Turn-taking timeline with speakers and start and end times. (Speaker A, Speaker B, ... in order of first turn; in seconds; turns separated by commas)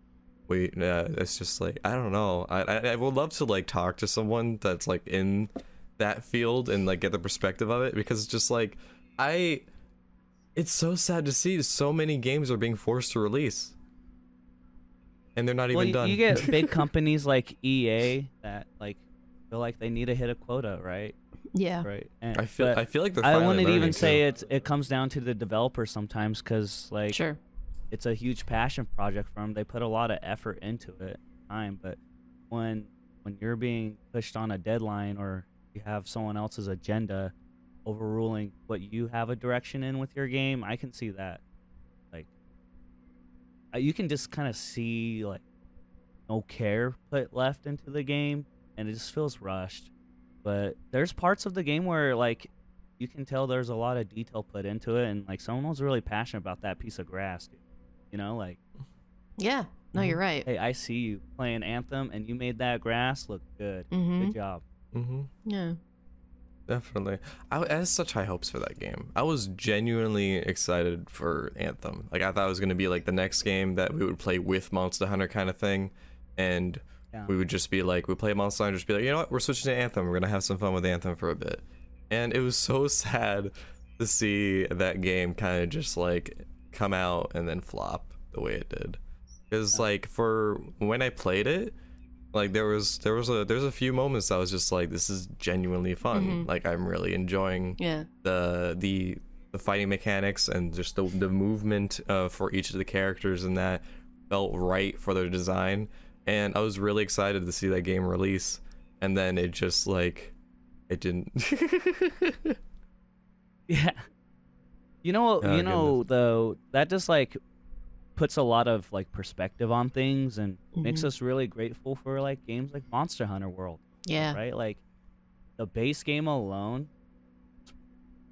Speaker A: 0.5-9.7, Speaker A: 10.6-13.8, Speaker A: 15.4-16.8, Speaker B: 15.7-21.1, Speaker C: 21.5-21.9, Speaker B: 21.8-27.2, Speaker A: 22.4-24.2, Speaker C: 27.1-27.4, Speaker B: 27.9-32.0, Speaker B: 32.5-37.3, Speaker B: 37.9-41.4, Speaker B: 43.7-45.4, Speaker B: 46.3-49.9, Speaker B: 50.4-58.6, Speaker C: 59.4-60.5, Speaker B: 60.5-64.6, Speaker C: 63.9-64.3, Speaker A: 64.9-65.3, Speaker C: 65.5-65.8, Speaker A: 66.7-89.0, Speaker A: 89.5-91.8, Speaker A: 92.3-110.3, Speaker C: 96.1-96.5, Speaker C: 97.8-98.1, Speaker A: 110.9-112.6, Speaker B: 113.7-114.0, Speaker B: 115.0-117.4, Speaker A: 115.4-116.0, Speaker B: 118.2-124.8, Speaker C: 120.8-121.1, Speaker C: 124.1-124.4, Speaker B: 125.6-126.9